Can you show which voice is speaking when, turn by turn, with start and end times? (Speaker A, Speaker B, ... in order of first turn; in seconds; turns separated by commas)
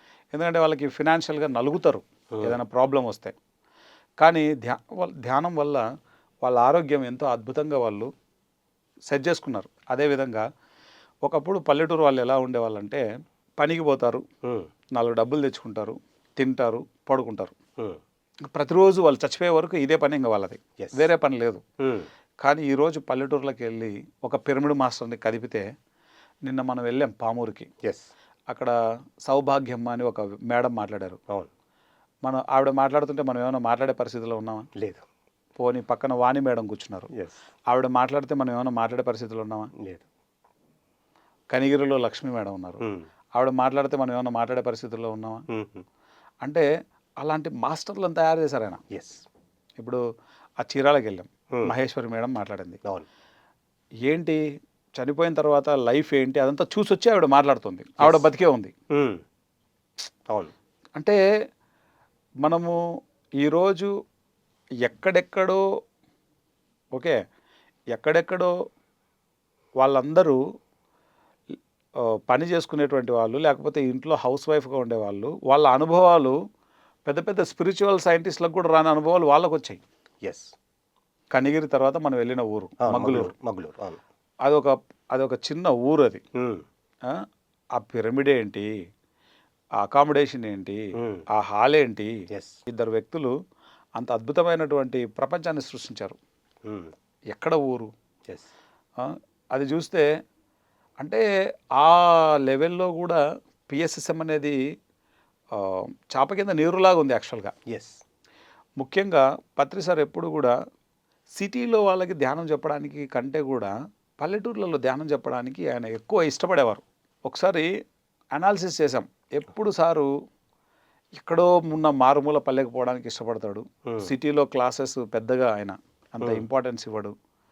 Speaker A: 0.3-3.3, Speaker A: 4.2-5.8, Speaker A: 6.4-8.1, Speaker A: 9.1-10.4, Speaker A: 11.2-13.0, Speaker A: 13.6-14.2, Speaker A: 14.9-17.5, Speaker A: 18.5-21.6, Speaker B: 20.8-21.1, Speaker B: 21.8-22.1, Speaker A: 22.4-25.7, Speaker A: 26.4-27.7, Speaker B: 27.8-28.1, Speaker A: 28.5-28.7, Speaker A: 29.2-31.2, Speaker A: 32.2-34.7, Speaker B: 34.8-35.0, Speaker A: 35.6-37.1, Speaker B: 37.1-37.4, Speaker A: 37.7-39.7, Speaker B: 39.8-40.0, Speaker A: 41.5-42.8, Speaker A: 43.4-45.4, Speaker B: 45.5-45.8, Speaker A: 47.2-48.8, Speaker B: 48.9-49.2, Speaker A: 50.6-52.8, Speaker A: 54.1-54.4, Speaker A: 55.0-58.7, Speaker B: 58.0-58.2, Speaker B: 58.9-59.2, Speaker A: 62.4-62.8, Speaker A: 63.4-63.9, Speaker A: 64.8-65.6, Speaker A: 67.9-68.5, Speaker A: 69.8-70.4, Speaker A: 72.0-76.3, Speaker A: 77.0-79.8, Speaker B: 80.2-80.5, Speaker A: 81.3-83.3, Speaker B: 82.8-84.0, Speaker A: 84.4-86.2, Speaker B: 86.3-86.6, Speaker A: 87.8-88.7, Speaker A: 89.8-92.1, Speaker B: 91.0-91.2, Speaker B: 92.3-92.6, Speaker A: 92.7-93.3, Speaker A: 94.0-96.2, Speaker B: 96.6-96.9, Speaker A: 97.3-97.9, Speaker A: 99.0-100.1, Speaker A: 101.8-104.6, Speaker A: 105.5-107.5, Speaker B: 107.7-108.0, Speaker A: 108.8-110.5, Speaker A: 111.4-117.7, Speaker A: 118.3-120.1, Speaker A: 121.1-127.1